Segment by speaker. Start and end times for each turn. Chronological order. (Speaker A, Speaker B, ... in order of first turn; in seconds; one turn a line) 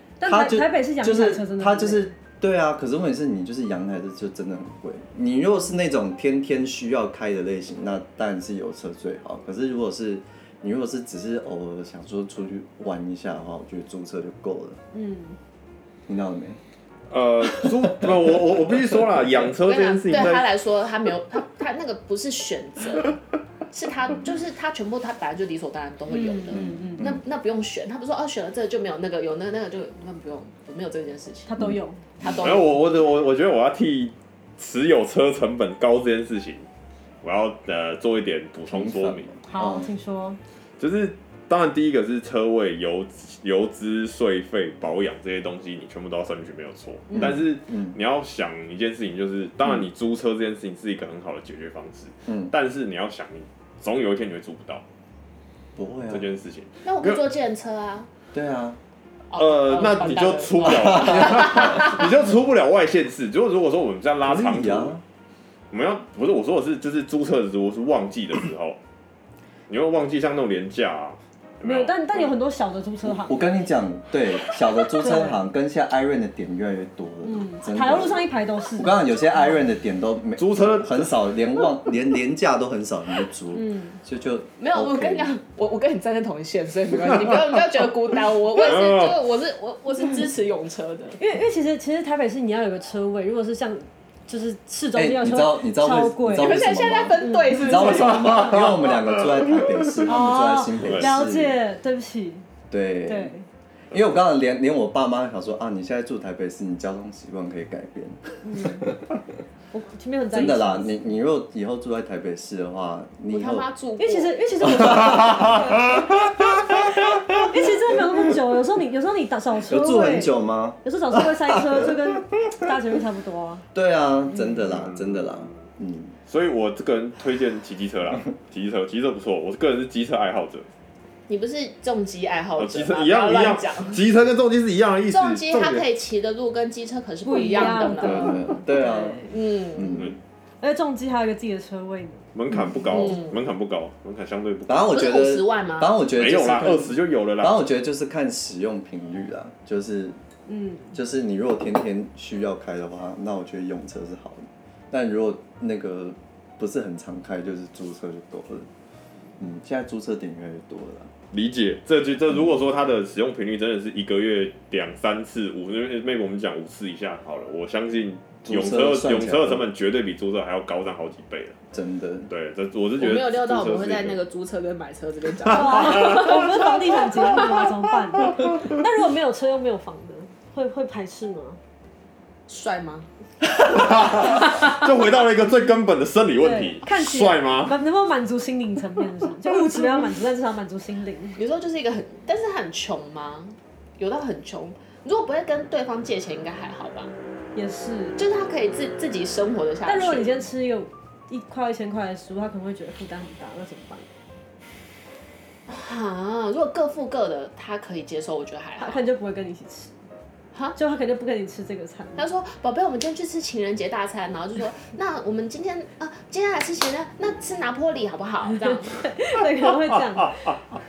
Speaker A: 0.2-2.1
Speaker B: 0.2-14.8
Speaker A: 14.9-15.4
Speaker B: 16.1-16.6
Speaker C: 17.1-20.5
Speaker D: 19.6-23.2
Speaker D: 23.7-31.5
Speaker A: 26.1-27.1
Speaker B: 26.5-27.2
Speaker A: 31.5-32.0
Speaker B: 31.6-32.7
Speaker D: 32.2-33.0
Speaker C: 32.4-36.7
Speaker C: 37.2-39.3
Speaker B: 38.7-39.9
Speaker A: 39.5-40.4
Speaker C: 40.8-54.8
Speaker A: 47.1-47.4
Speaker B: 47.1-48.0
Speaker B: 52.3-52.5
Speaker B: 55.8-56.2
Speaker C: 56.1-57.2
Speaker D: 56.8-58.1
Speaker B: 58.3-58.8
Speaker D: 59.3-62.1
Speaker C: 59.4-64.9
Speaker B: 64.2-65.0
Speaker C: 65.7-68.8
Speaker C: 69.7-72.3
Speaker A: 71.6-73.4
Speaker B: 73.0-85.3
Speaker A: 74.8-75.4
Speaker A: 77.2-79.0
Speaker C: 80.4-81.1
Speaker A: 83.5-84.0
Speaker D: 84.6-91.2
Speaker C: 88.6-89.1
Speaker A: 91.2-96.6
Speaker B: 94.9-101.6
Speaker D: 96.3-99.2
Speaker A: 97.2-97.8
Speaker C: 98.2-99.0
Speaker A: 100.0-102.5
Speaker C: 100.8-101.2
Speaker B: 102.7-103.3
Speaker A: 103.0-103.5
Speaker B: 103.9-109.2
Speaker A: 108.4-109.0
Speaker A: 109.7-111.0
Speaker B: 110.3-113.7
Speaker D: 113.3-114.3
Speaker A: 114.0-116.0
Speaker B: 114.6-115.6
Speaker B: 116.7-117.4
Speaker A: 116.9-123.6
Speaker B: 119.6-121.9
Speaker B: 123.7-126.2
Speaker C: 124.6-125.6
Speaker C: 126.3-130.7
Speaker D: 131.3-134.0
Speaker C: 132.6-135.8
Speaker D: 135.1-138.4
Speaker A: 137.2-139.3
Speaker B: 137.9-140.2
Speaker D: 139.3-140.1
Speaker A: 140.6-142.2
Speaker C: 142.3-145.0
Speaker D: 142.9-143.4
Speaker B: 144.7-150.2
Speaker D: 144.9-146.0
Speaker C: 146.1-147.6
Speaker A: 150.5-150.9
Speaker B: 150.9-158.7
Speaker B: 159.4-161.1
Speaker C: 161.3-171.6
Speaker B: 168.4-169.7
Speaker B: 171.7-172.3
Speaker C: 172.3-174.2
Speaker D: 173.0-177.7
Speaker A: 175.4-181.6
Speaker C: 175.7-176.3
Speaker D: 182.5-183.1
Speaker C: 183.6-187.7
Speaker A: 186.4-191.4
Speaker D: 191.3-197.1
Speaker A: 197.5-198.2
Speaker D: 198.2-200.4
Speaker A: 199.8-204.1
Speaker D: 205.7-209.0
Speaker A: 208.8-209.9
Speaker A: 210.8-212.2
Speaker D: 212.2-219.1
Speaker A: 218.5-220.6